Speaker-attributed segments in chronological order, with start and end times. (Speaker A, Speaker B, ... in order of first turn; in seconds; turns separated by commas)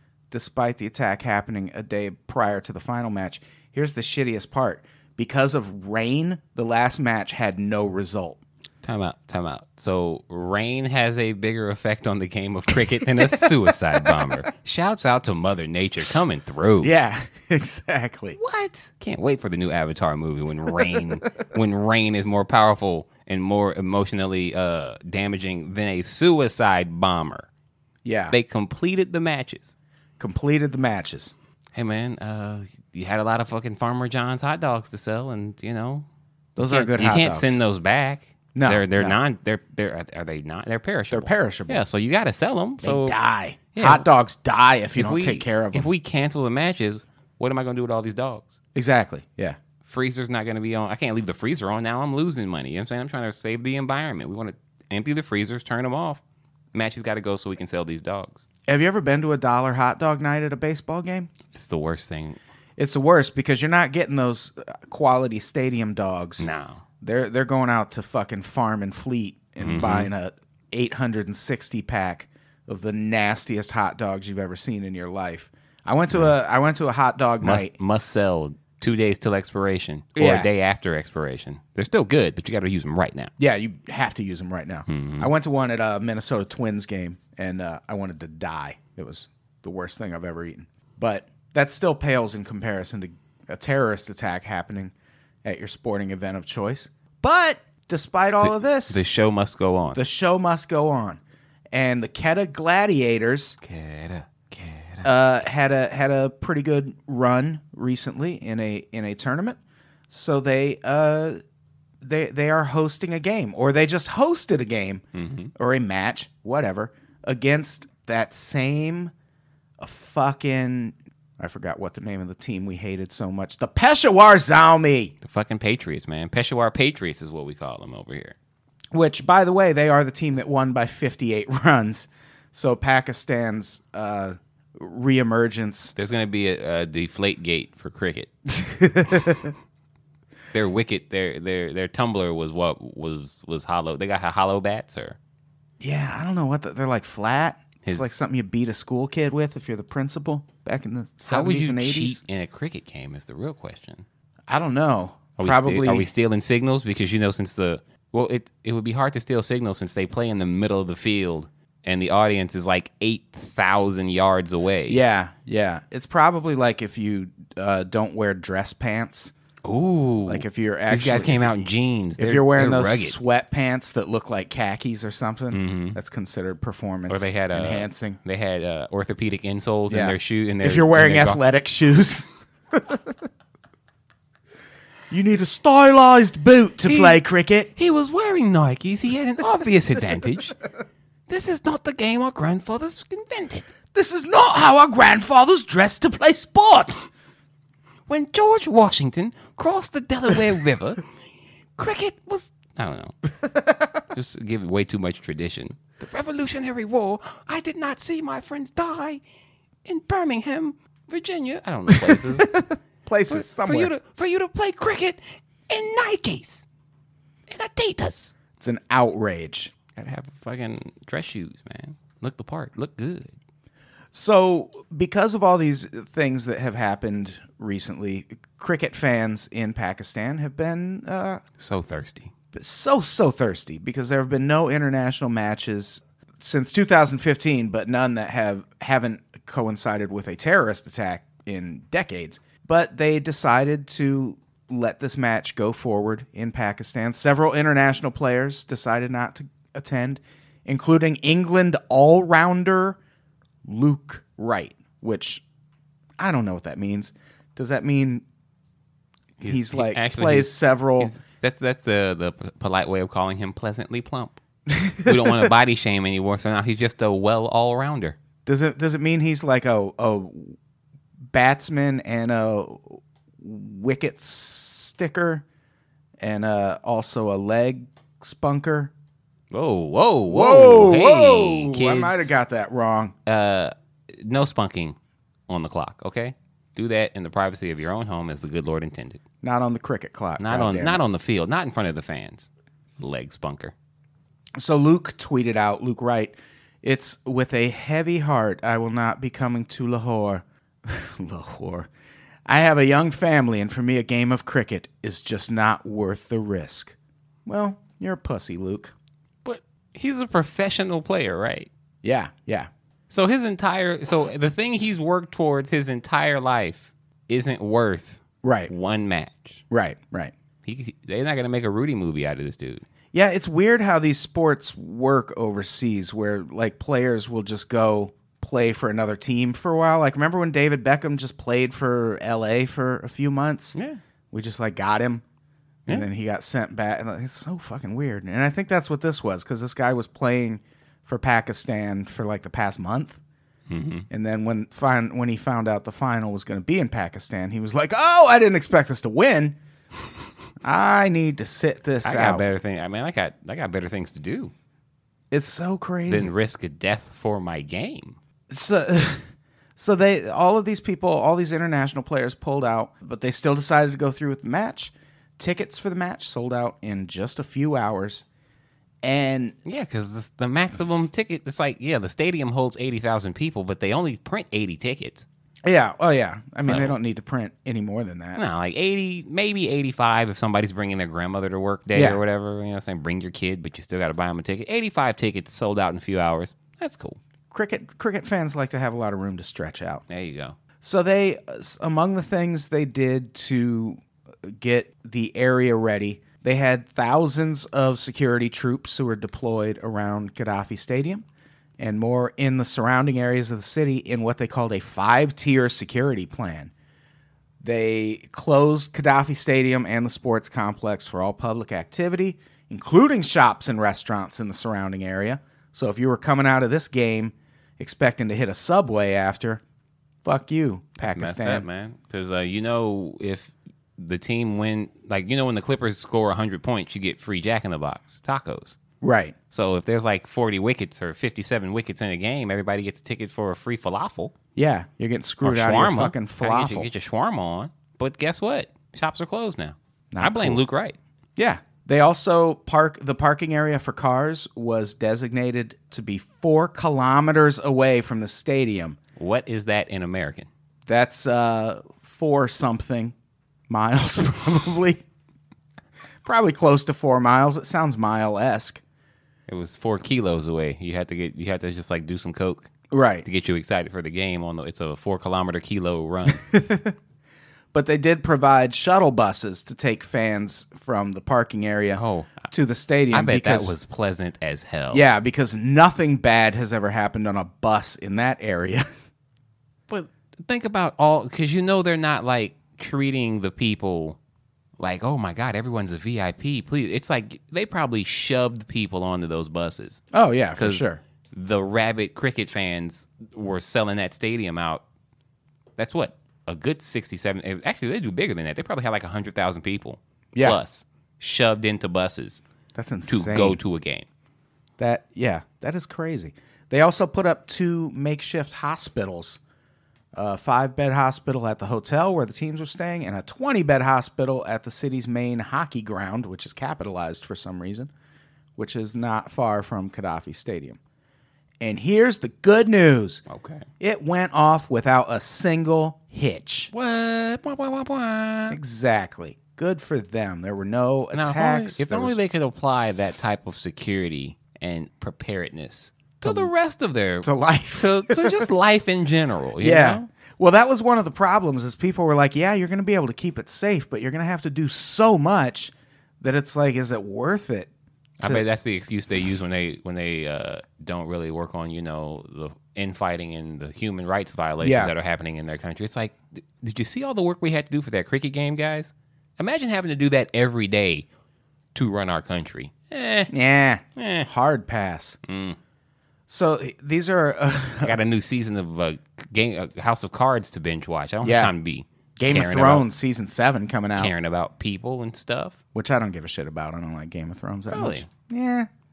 Speaker A: 0.3-8.4, Speaker B: 8.8-16.9, Speaker A: 12.9-14.3, Speaker A: 16.8-18.4, Speaker B: 18.4-27.5, Speaker A: 28.0-28.4, Speaker B: 28.3-29.7, Speaker A: 30.2-31.3, Speaker B: 31.7-36.1, Speaker A: 36.6-37.6, Speaker B: 36.6-43.2, Speaker A: 38.5-39.2, Speaker A: 41.1-41.8, Speaker A: 42.8-45.9, Speaker B: 43.7-44.1, Speaker B: 45.0-48.6, Speaker A: 48.8-49.6, Speaker B: 49.9-56.2, Speaker B: 56.7-58.5, Speaker A: 58.7-61.3, Speaker B: 61.5-62.4, Speaker A: 62.8-66.5, Speaker B: 66.4-66.8, Speaker A: 67.0-77.7, Speaker B: 69.6-70.1, Speaker B: 77.4-83.3, Speaker A: 80.2-80.5, Speaker A: 83.4-94.9, Speaker B: 84.9-85.3, Speaker A: 95.4-99.0, Speaker B: 98.4-100.0, Speaker A: 100.0-101.2, Speaker A: 101.7-103.6, Speaker B: 103.6-105.1, Speaker A: 105.0-109.6, Speaker A: 110.1-111.4, Speaker A: 112.0-115.0, Speaker B: 115.1-115.5, Speaker A: 115.5-119.1, Speaker A: 119.8-125.1, Speaker B: 125.2-128.3, Speaker A: 128.9-135.9, Speaker B: 136.0-138.3, Speaker A: 138.5-139.5, Speaker B: 139.1-139.4, Speaker B: 140.5-145.2, Speaker A: 145.8-152.2, Speaker B: 147.8-148.1, Speaker B: 151.3-154.1, Speaker A: 154.5-156.1, Speaker B: 155.4-165.0, Speaker A: 164.9-169.3, Speaker B: 169.7-173.2, Speaker A: 170.3-171.5, Speaker A: 172.2-178.2, Speaker B: 175.5-176.0, Speaker B: 177.1-181.4, Speaker A: 179.9-183.2, Speaker A: 185.1-187.7, Speaker B: 186.9-187.2, Speaker B: 187.8-190.6, Speaker B: 191.3-193.7, Speaker A: 193.9-197.0, Speaker B: 198.1-201.0, Speaker B: 201.8-203.2, Speaker B: 204.1-209.2, Speaker B: 209.8-212.6, Speaker A: 211.9-213.9, Speaker B: 213.3-216.7, Speaker B: 217.5-218.3, Speaker A: 218.6-219.8, Speaker B: 219.9-223.3, Speaker A: 224.1-231.4, Speaker B: 231.6-232.3, Speaker A: 232.5-253.0, Speaker A: 253.7-255.4, Speaker A: 256.2-258.2, Speaker A: 259.4-261.1, Speaker B: 259.4-264.4, Speaker A: 264.7-265.5, Speaker B: 265.0-268.2, Speaker A: 268.5-270.6, Speaker A: 271.3-275.4, Speaker A: 276.2-278.9, Speaker B: 279.5-282.4, Speaker A: 280.3-283.1, Speaker B: 283.3-285.0, Speaker B: 285.5-289.2, Speaker A: 289.4-291.0, Speaker B: 290.4-293.7, Speaker A: 294.6-301.9, Speaker A: 302.5-308.9, Speaker B: 309.4-311.7, Speaker A: 312.0-312.7, Speaker B: 313.1-319.6, Speaker A: 318.4-318.7, Speaker A: 319.7-320.3, Speaker B: 320.6-322.8, Speaker A: 323.1-333.8, Speaker B: 333.8-334.0, Speaker A: 334.3-335.2, Speaker A: 335.9-343.2, Speaker B: 343.7-344.1, Speaker A: 344.1-349.6, Speaker A: 350.6-352.4, Speaker B: 352.0-354.5, Speaker A: 355.3-356.3, Speaker B: 356.1-358.2, Speaker A: 358.5-368.2, Speaker A: 369.0-369.6, Speaker B: 369.7-375.3, Speaker A: 375.6-378.4, Speaker B: 376.6-376.9, Speaker B: 378.4-387.2, Speaker A: 381.9-382.2, Speaker A: 387.5-390.0, Speaker B: 390.1-390.6, Speaker A: 390.8-401.2, Speaker A: 401.8-406.7, Speaker A: 407.6-419.6, Speaker A: 420.2-421.6, Speaker B: 421.0-428.8, Speaker A: 429.0-429.4, Speaker B: 429.5-434.3, Speaker A: 434.6-436.9, Speaker B: 435.4-441.0, Speaker A: 440.1-440.6, Speaker A: 441.4-449.0, Speaker B: 449.2-450.5, Speaker A: 450.9-453.1, Speaker A: 453.7-455.0, Speaker A: 456.2-458.8, Speaker B: 459.5-462.7, Speaker A: 462.9-463.3, Speaker B: 463.2-466.4, Speaker A: 466.3-467.0, Speaker A: 467.7-473.7, Speaker B: 471.9-472.5, Speaker B: 473.1-475.1, Speaker A: 474.9-478.9, Speaker B: 479.9-484.2, Speaker B: 484.8-490.0, Speaker A: 490.1-491.0, Speaker B: 490.6-494.8, Speaker B: 495.8-502.4, Speaker A: 500.3-500.6, Speaker A: 502.8-503.6, Speaker B: 503.1-504.1, Speaker A: 504.8-509.4, Speaker A: 510.1-517.9, Speaker A: 518.6-520.8, Speaker A: 521.6-523.2, Speaker B: 523.3-523.7, Speaker A: 523.8-526.7, Speaker B: 526.7-528.6, Speaker A: 528.5-532.2, Speaker B: 531.1-540.1, Speaker A: 536.2-536.5, Speaker A: 537.2-538.5, Speaker A: 539.6-547.7, Speaker B: 548.2-561.1, Speaker A: 554.6-554.9, Speaker B: 561.7-563.3, Speaker A: 563.3-565.2, Speaker B: 564.0-564.3, Speaker B: 565.3-565.6, Speaker A: 566.3-568.0, Speaker B: 567.8-572.9, Speaker A: 571.2-571.5, Speaker A: 572.2-574.1, Speaker B: 574.0-575.6, Speaker A: 575.8-578.7, Speaker B: 577.7-578.1